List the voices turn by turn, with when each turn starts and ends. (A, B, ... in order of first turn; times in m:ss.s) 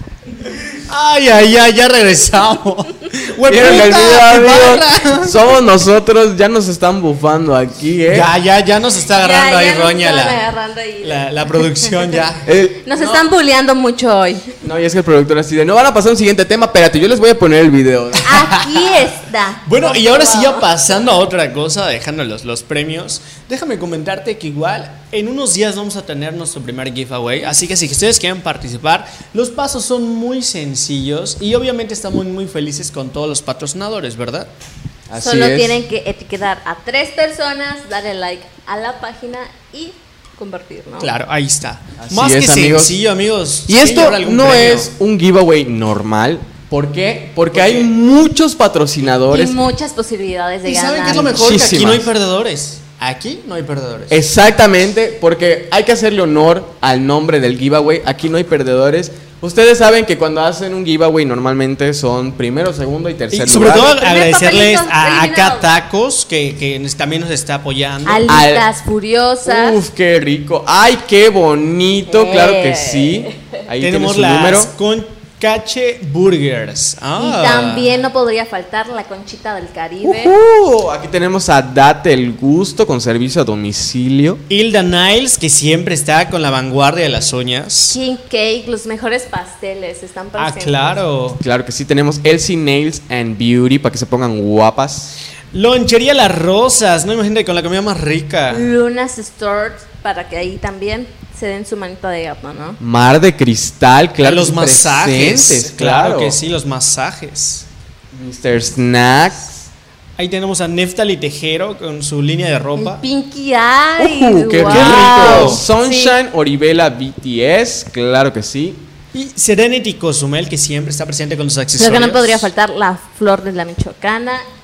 0:00.9-0:05.4 A
0:03.4-0:08.3 B
0:08.1-0:10.4 A
0:09.2-0:11.3 C
0:11.0-0:12.5 A
0:12.5-0:13.2 B
0:12.8-0:14.6 C
0:14.6-0:18.4 B
0:18.2-0:20.6 C
0:19.7-0:34.5 A
0:35.1-0:35.8 B
0:35.2-0:41.1 C
0:41.0-0:44.9 A
0:42.0-0:43.0 B
0:43.7-0:49.6 B
0:47.5-0:47.9 A
0:49.3-0:51.4 C
0:50.6-0:54.2 A
0:51.1-0:52.1 B
0:54.1-1:03.9 B
1:03.3-1:08.4 A
1:03.6-1:05.7 C
1:08.1-1:09.8 C
1:08.3-1:08.7 B
1:09.4-1:14.7 B
1:12.1-1:13.6 C
1:13.8-1:17.9 A
1:17.2-1:20.3 C
1:20.0-1:24.4 B
1:24.5-1:28.0 A
1:27.9-1:31.0 C
1:30.4-1:31.4 A
1:31.4-1:35.1 B
1:35.5-1:38.7 A
1:38.5-1:42.8 C
1:42.8-1:46.4 B
1:44.2-1:47.7 A
1:48.1-1:49.7 B
1:50.2-1:53.0 A
1:52.8-1:56.2 C
1:54.0-1:58.8 B
1:54.6-1:55.6 A
1:59.1-2:02.5 A
2:01.8-2:04.5 C